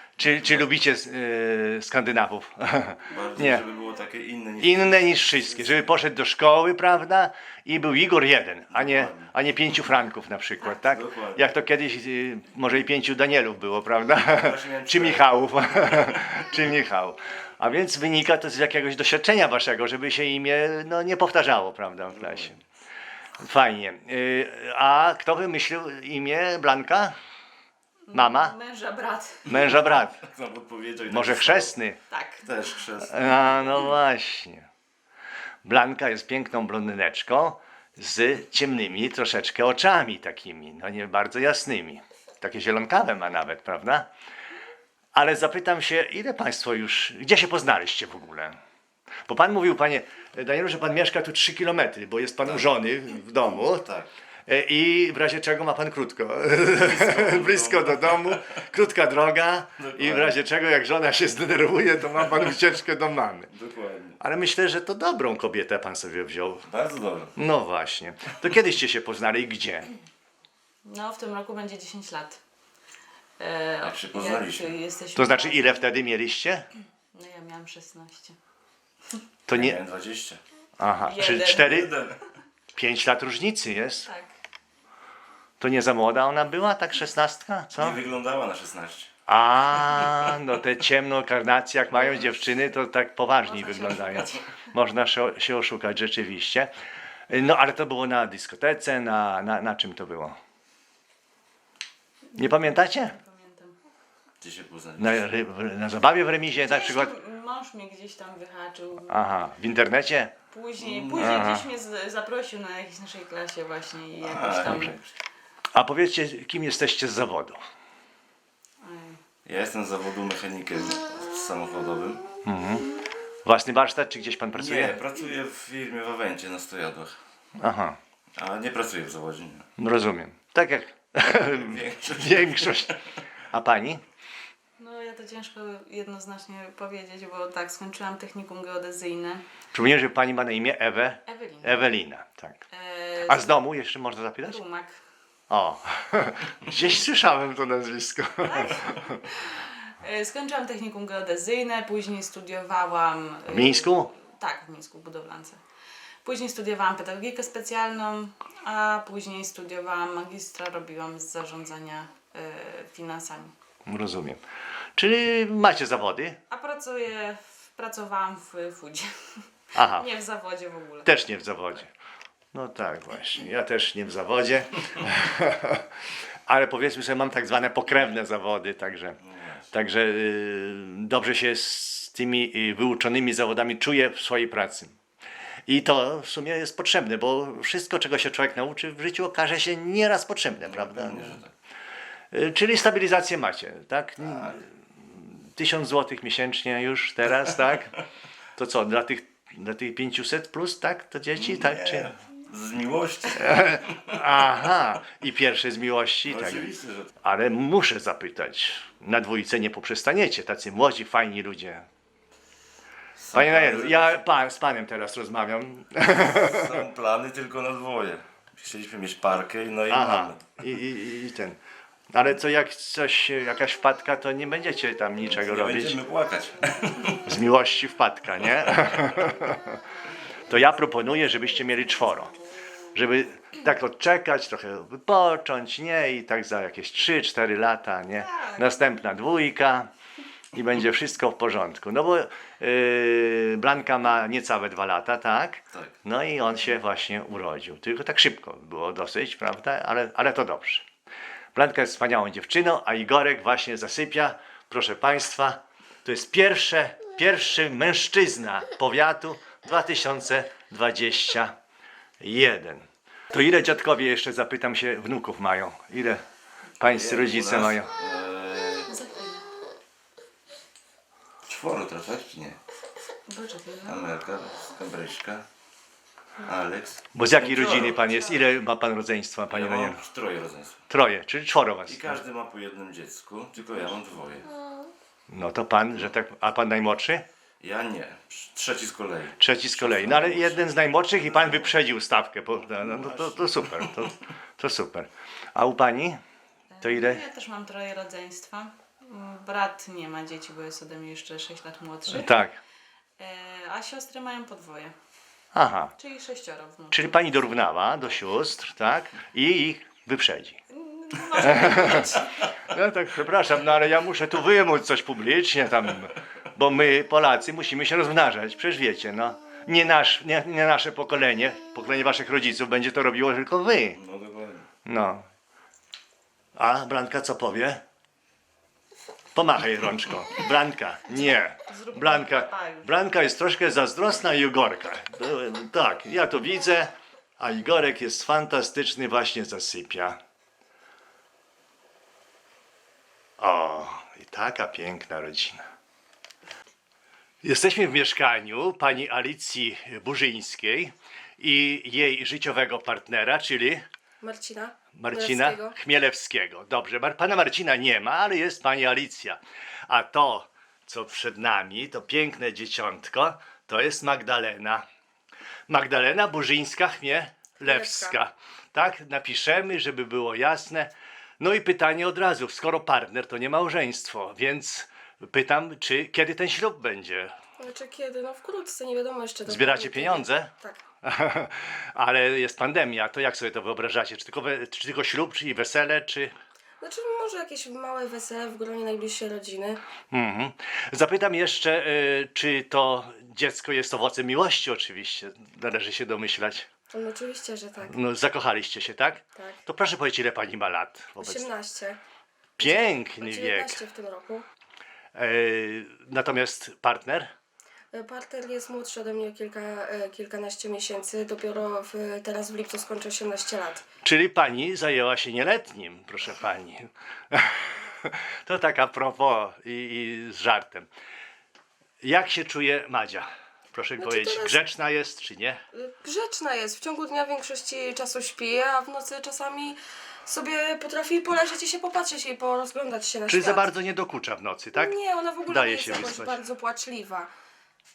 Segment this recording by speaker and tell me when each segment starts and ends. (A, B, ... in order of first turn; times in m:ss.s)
0:00.2-0:03.6 A
0:03.1-0:05.9 B
0:04.6-0:22.6 A
0:08.7-0:09.3 B
0:10.7-0:11.5 B
0:14.2-0:16.2 B
0:22.1-0:22.6 B
0:23.4-0:27.1 A
0:28.1-0:29.4 C
0:28.1-0:28.6 A
0:29.5-0:30.2 A
0:29.5-0:31.7 B
0:31.1-0:32.0 A
0:32.1-0:32.8 C
0:32.4-0:33.9 B
0:33.1-0:34.7 A
0:35.6-0:44.1 A
0:45.2-0:48.6 A
0:49.3-0:53.9 A
0:52.4-0:52.8 B
0:53.4-0:54.1 B
0:54.5-1:03.5 A
0:56.7-0:58.6 B
0:59.8-1:00.4 B
1:03.5-1:04.2 B
1:04.2-1:06.7 A
1:06.7-1:07.3 B
1:07.4-1:09.9 A
1:10.9-1:12.4 C
1:13.4-1:15.8 C
1:13.8-1:14.8 B
1:15.2-1:16.7 A
1:17.1-1:18.4 C
1:19.5-1:19.8 A
1:19.5-1:20.4 B
1:20.8-1:21.9 A
1:21.0-1:21.7 C
1:21.6-1:22.2 B
1:22.8-1:24.1 A
1:24.0-1:24.3 C
1:25.6-1:28.0 A
1:27.8-1:29.1 B
1:29.3-1:36.7 A
1:32.0-1:32.4 B
1:33.4-1:34.5 C
1:37.3-1:40.4 A
1:42.4-1:43.8 C
1:42.4-1:43.2 A
1:44.4-1:45.3 B
1:45.0-1:47.1 A
1:46.5-1:49.2 C
1:49.1-1:50.3 A
1:50.5-1:55.0 C
1:50.8-1:51.4 B
1:51.2-1:51.7 A
1:54.2-1:55.0 B
1:54.6-1:54.9 A
1:55.8-1:57.6 A
1:58.8-1:59.2 C
1:59.4-2:02.2 B
2:02.4-2:02.9 A
2:03.4-2:05.0 A
2:04.5-2:07.2 B
2:07.6-2:08.0 A
2:08.4-2:09.6 B
2:09.8-2:12.9 A
2:11.3-2:13.1 B
2:13.5-2:14.0 A
2:14.8-2:19.5 C
2:19.7-2:22.6 A
2:21.3-2:21.9 C
2:22.7-2:23.6 C
2:23.3-2:24.6 A
2:24.4-2:25.0 C
2:25.5-2:29.1 A
2:28.4-2:35.6 C
2:33.5-2:34.1 A
2:36.2-2:43.5 C
2:43.9-2:44.4 A
2:45.0-2:46.4 A
2:46.5-2:51.2 C
2:49.8-2:50.1 A
2:51.0-2:51.9 A
2:52.5-2:55.8 A
2:56.5-2:59.2 A
2:59.2-2:59.7 B
2:59.7-3:05.0 A
3:05.7-3:11.4 A
3:10.6-3:11.5 B
3:12.3-3:18.0 A
3:14.2-3:14.6 B
3:18.6-3:22.1 A
3:21.4-3:24.2 B
3:23.4-3:31.9 A
3:26.2-3:27.1 B
3:33.2-3:34.2 B
3:33.3-3:36.8 A
3:36.2-3:40.4 B
3:39.9-3:41.6 A
3:42.1-3:46.0 A
3:45.3-3:47.3 B
3:47.2-3:49.8 A
3:50.5-3:52.3 A
3:52.9-3:59.9 A
3:58.2-3:58.7 C
4:00.5-4:10.8 A
4:11.6-4:21.6 A
4:22.2-4:26.2 A
4:26.8-4:27.9 A
4:26.8-4:28.9 B
4:28.9-4:29.5 C
4:31.5-4:32.6 B
4:33.3-4:34.1 C
4:33.8-4:35.4 B
4:36.4-4:38.4 B
4:37.1-4:40.0 A
4:39.5-4:40.8 B
4:40.9-4:42.2 A
4:41.9-4:44.5 B
4:45.3-4:47.2 A
4:47.6-4:51.7 B
4:49.4-4:56.2 A
4:52.8-4:53.9 B
4:56.7-5:02.4 C
4:56.8-4:57.2 A
5:02.1-5:02.6 A
5:03.2-5:04.9 C
5:05.5-5:05.9 A
5:06.0-5:07.4 C
5:06.9-5:10.6 A
5:10.8-5:12.5 C
5:11.4-5:24.0 A
5:24.0-5:24.7 B
5:24.9-5:25.2 A
5:26.6-5:27.8 A
5:29.4-5:40.2 A
5:31.1-5:33.0 C
5:43.4-5:45.6 A
5:47.4-5:53.8 A
5:54.2-5:55.8 D
5:55.0-6:04.8 A
6:05.7-6:17.3 A
6:07.6-6:08.2 D
6:17.6-6:20.8 D
6:19.5-6:20.5 A
6:21.0-6:26.3 A
6:26.8-6:29.8 D
6:30.1-6:36.7 A
6:36.9-6:38.0 D
6:37.9-6:41.5 A
6:41.2-6:42.0 D
6:42.6-6:43.8 A
6:42.6-6:44.4 D
6:45.2-6:47.3 A
6:47.9-6:53.8 D
6:54.0-7:00.9 A
7:02.0-7:05.6 A
7:04.0-7:04.6 D
7:05.7-7:13.7 D
7:13.3-7:15.0 A
7:14.8-7:17.3 D
7:15.5-7:16.4 A